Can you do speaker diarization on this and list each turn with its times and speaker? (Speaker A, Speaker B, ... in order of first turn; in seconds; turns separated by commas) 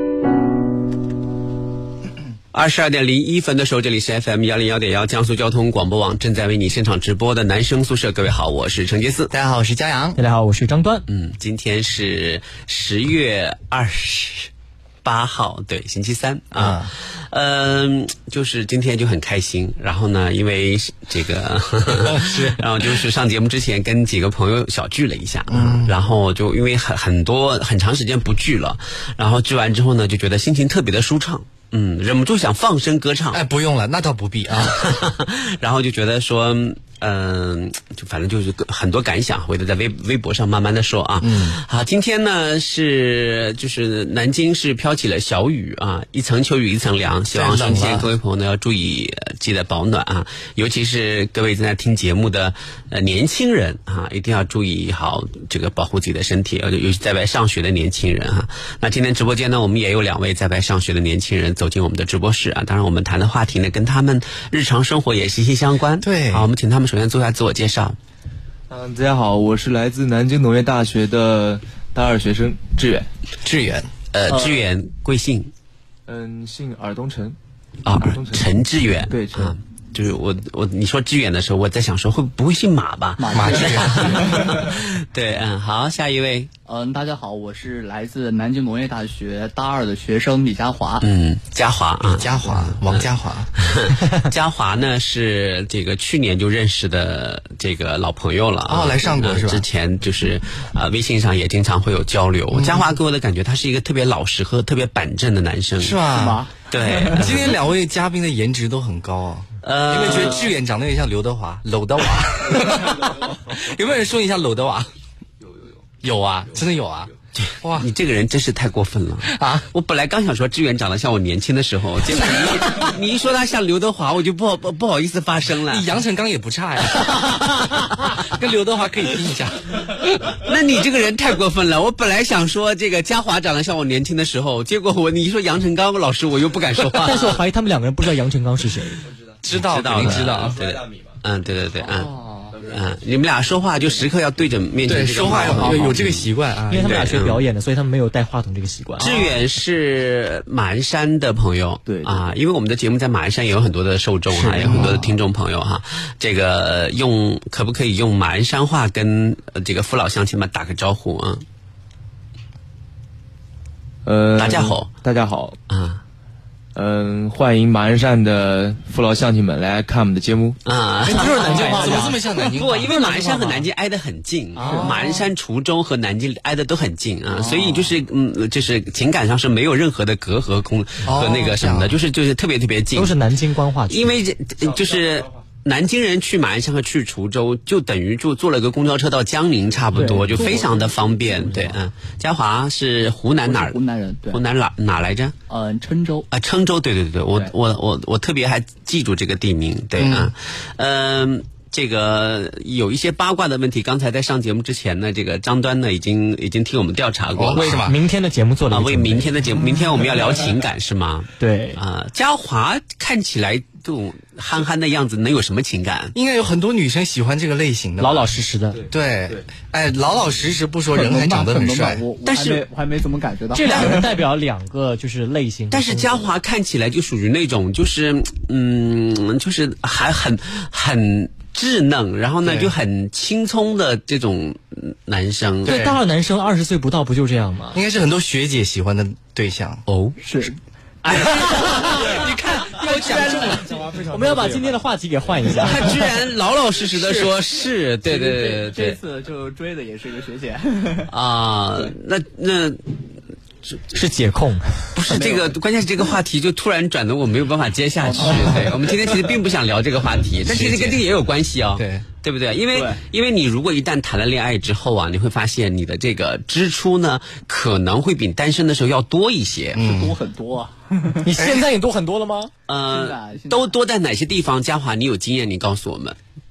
Speaker A: 2.5-9.3, Speaker B: 9.3-10.2, Speaker C: 10.2-11.1, Speaker A: 11.1-14.5, Speaker A: 15.0-33.4, Speaker B: 16.5-16.9, Speaker B: 21.9-22.6, Speaker B: 25.5-26.0, Speaker B: 33.3-34.8, Speaker A: 34.5-68.0, Speaker B: 41.2-41.6, Speaker B: 47.3-48.1, Speaker B: 66.0-66.5, Speaker D: 68.7-73.1, Speaker B: 73.4-73.9, Speaker A: 74.1-75.5, Speaker E: 74.3-74.6, Speaker D: 76.1-77.4, Speaker A: 77.8-86.5, Speaker D: 78.0-78.5, Speaker D: 79.1-79.5, Speaker E: 83.2-84.7, Speaker B: 83.3-84.4, Speaker E: 86.7-91.0, Speaker A: 91.0-93.1, Speaker B: 92.0-93.5, Speaker A: 93.6-106.0, Speaker B: 98.7-99.7, Speaker B: 102.5-102.9, Speaker B: 105.8-106.4, Speaker E: 106.1-107.5, Speaker A: 106.7-107.6, Speaker B: 107.1-114.9, Speaker A: 109.6-110.5, Speaker E: 110.0-110.5, Speaker B: 116.0-117.9, Speaker A: 117.4-125.9, Speaker B: 119.2-119.7, Speaker B: 125.7-127.5, Speaker A: 126.9-127.9, Speaker B: 128.0-130.0, Speaker A: 130.4-137.4, Speaker C: 137.0-139.1, Speaker B: 139.4-140.6, Speaker A: 139.5-142.1, Speaker D: 140.0-141.2, Speaker E: 141.8-142.6, Speaker A: 142.6-147.4, Speaker B: 144.8-147.0, Speaker E: 145.2-146.0, Speaker C: 146.7-149.3, Speaker A: 149.0-161.4, Speaker D: 151.8-152.3, Speaker B: 154.3-155.1, Speaker D: 164.1-165.6, Speaker A: 164.4-164.9, Speaker A: 165.7-166.0, Speaker D: 166.8-170.6, Speaker A: 170.7-183.2, Speaker B: 171.1-173.6, Speaker C: 171.1-172.2, Speaker E: 171.1-172.1, Speaker C: 174.6-174.9, Speaker E: 174.6-174.9, Speaker E: 177.3-177.9, Speaker B: 181.0-182.0, Speaker C: 182.9-184.2, Speaker A: 183.9-193.8, Speaker E: 189.9-191.1, Speaker E: 193.5-194.4, Speaker A: 194.3-195.3, Speaker E: 195.5-196.3, Speaker A: 196.3-207.9, Speaker B: 200.0-200.3, Speaker B: 207.3-208.0, Speaker C: 207.6-209.3, Speaker A: 208.7-216.2, Speaker C: 211.4-211.8, Speaker B: 216.2-218.3, Speaker C: 218.0-218.8, Speaker D: 218.8-219.4, Speaker B: 218.9-222.0, Speaker E: 220.9-224.2, Speaker A: 222.2-222.7, Speaker C: 223.5-226.2, Speaker A: 223.7-224.0, Speaker A: 225.7-235.8, Speaker B: 232.4-232.7, Speaker B: 235.6-236.0, Speaker C: 235.7-237.8, Speaker B: 237.7-239.8, Speaker A: 239.9-240.2, Speaker E: 240.2-240.6, Speaker E: 241.1-241.6, Speaker B: 241.1-243.8, Speaker A: 241.2-242.1, Speaker A: 242.8-243.6, Speaker E: 242.9-243.6, Speaker D: 243.8-244.7, Speaker C: 244.1-245.9, Speaker A: 245.6-249.0, Speaker E: 246.9-247.4, Speaker E: 248.1-251.1, Speaker A: 251.1-252.9, Speaker C: 253.9-254.9, Speaker A: 254.9-269.9, Speaker E: 255.1-255.5, Speaker E: 258.0-258.8, Speaker B: 260.5-261.0, Speaker B: 261.8-262.1, Speaker E: 262.7-263.0, Speaker B: 269.7-270.2, Speaker E: 269.8-271.2, Speaker C: 271.2-272.5, Speaker B: 271.4-271.6, Speaker A: 272.7-276.2, Speaker E: 272.9-273.7